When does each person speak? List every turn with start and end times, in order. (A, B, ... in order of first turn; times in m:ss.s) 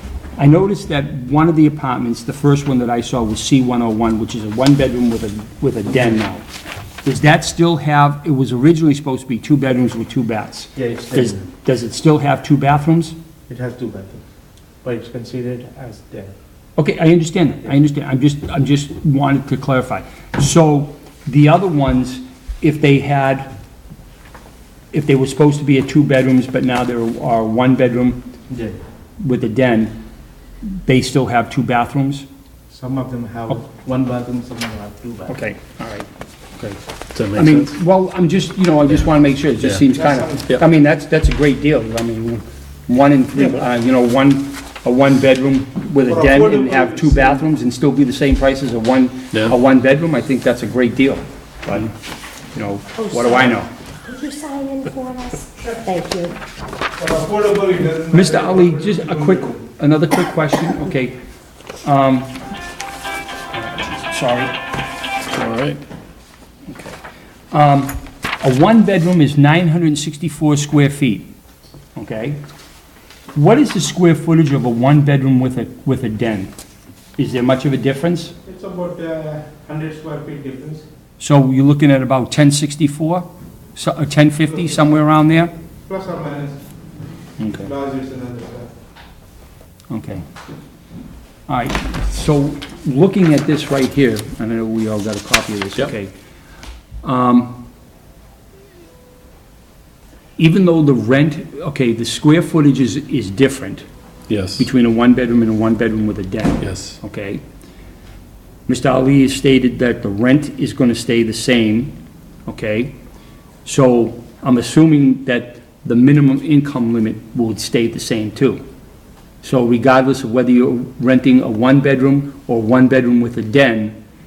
0:00.4-0:06.4 A
0:07.0-0:13.1 A
0:10.8-0:11.5 B
0:13.5-0:14.2 B
0:14.8-0:16.3 B
0:16.8-0:23.5 A
0:24.9-0:28.2 A
0:28.5-0:28.8 B
0:29.2-0:29.9 A
0:30.7-0:32.2 A
0:32.7-0:35.4 B
0:35.3-0:51.9 A
0:37.1-0:37.7 C
0:39.9-0:40.5 B
0:46.1-0:47.4 B
0:52.5-0:53.7 A
0:53.0-0:56.3 D
0:57.0-0:59.6 B
0:58.1-1:01.2 A
1:01.8-1:02.3 A
1:03.5-1:04.5 A
1:05.3-1:05.8 C
1:06.7-1:07.0 A
1:07.5-1:11.3 A
1:11.9-1:12.4 A
1:13.3-1:16.5 A
1:17.2-1:18.3 A
1:18.4-1:20.8 B
1:21.2-1:25.5 A
1:24.5-1:25.0 B
1:25.8-1:26.6 B
1:27.4-1:27.7 A
1:27.6-1:28.7 B
1:29.9-1:30.2 A
1:31.5-1:36.1 A
1:37.0-1:37.6 A
1:40.4-1:43.8 A
1:44.3-1:44.7 C
1:44.5-1:47.4 A
1:46.6-1:47.0 C
1:48.7-1:52.9 A
1:53.6-1:58.6 A
1:59.4-2:03.9 A